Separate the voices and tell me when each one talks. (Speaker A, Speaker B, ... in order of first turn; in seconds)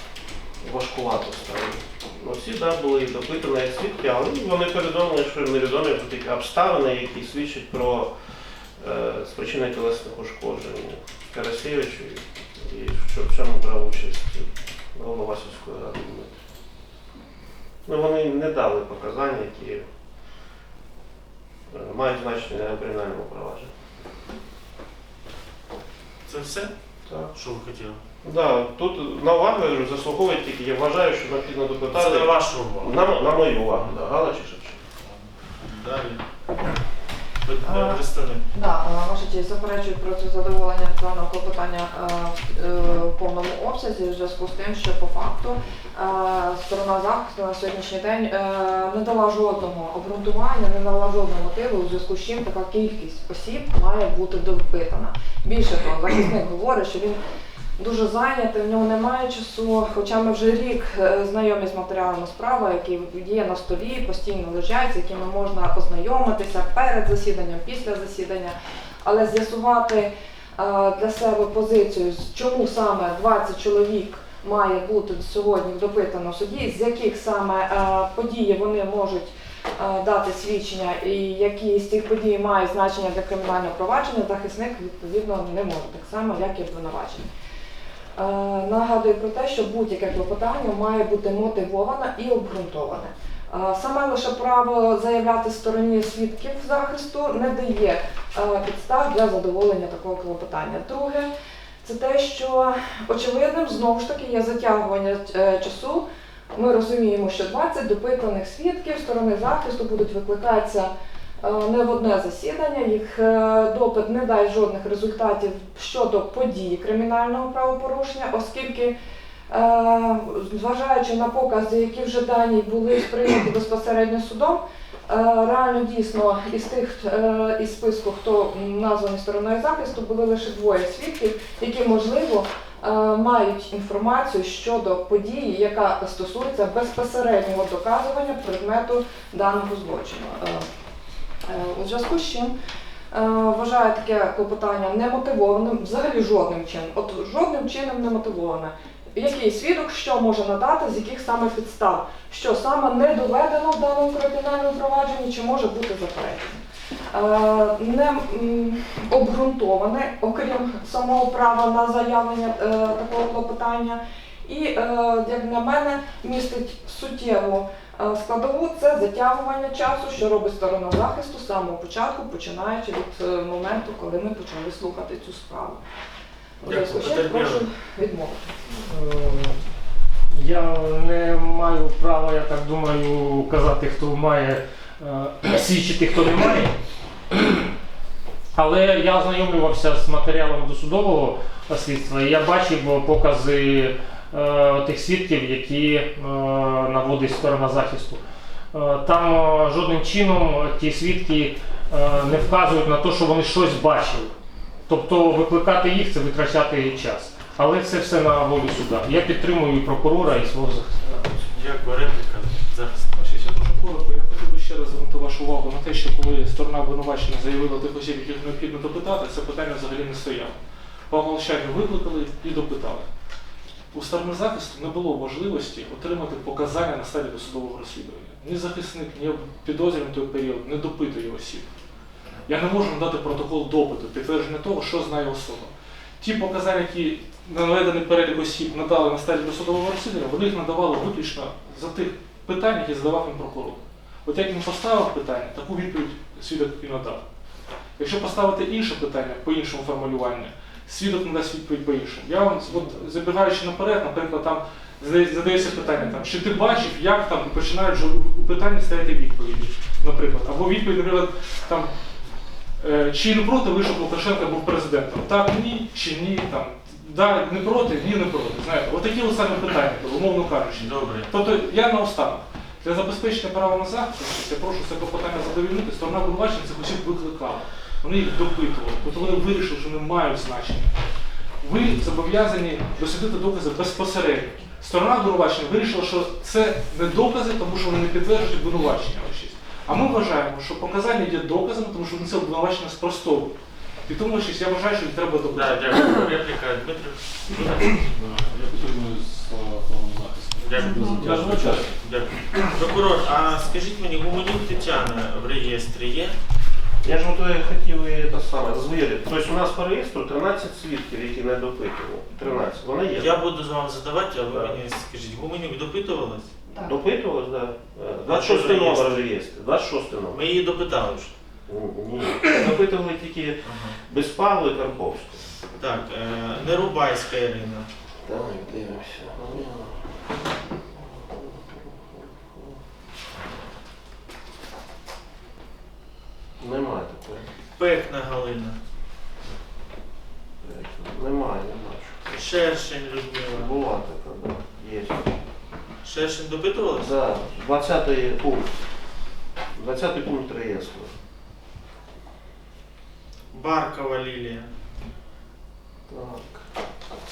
Speaker A: 0.6-8.1, 8.8-16.4, 17.9-19.9, 21.7-23.7, 27.1-27.3, 28.2-34.8, 307.0-313.4, 314.5-314.8, 316.8-320.4, 321.7-325.5, 328.2-330.2, 331.0-332.8, 336.6-337.5, 340.6-342.2, 343.5-345.3, 347.0-348.8, 349.8-351.1, 356.1-356.6
Speaker B: 26.3-26.7, 27.3-28.0, 31.9-33.0, 35.0-36.2, 37.4-38.4, 176.6-177.7, 211.5-213.1, 270.8-271.3, 295.5-298.1, 300.6-306.4, 313.1-316.5, 318.3-319.2, 320.3-321.3, 323.6-324.0, 325.8-327.9, 337.8-338.8, 342.3-343.7, 346.0-347.1, 353.5-354.7
Speaker C: 37.6-38.0, 38.5-57.2, 57.8-87.3, 88.2-101.3, 101.8-110.9, 111.4-118.9, 119.5-140.7, 141.5-142.5, 143.1-175.8, 176.6-178.5
Speaker D: 178.8-179.6, 180.3-186.8, 188.5-204.3, 204.9-211.4
Speaker E: 213.1-220.6, 221.1-223.1, 223.9-231.7, 232.5-247.2, 248.0-261.9, 262.8-280.9, 281.6-296.1
Speaker F: 298.1-302.0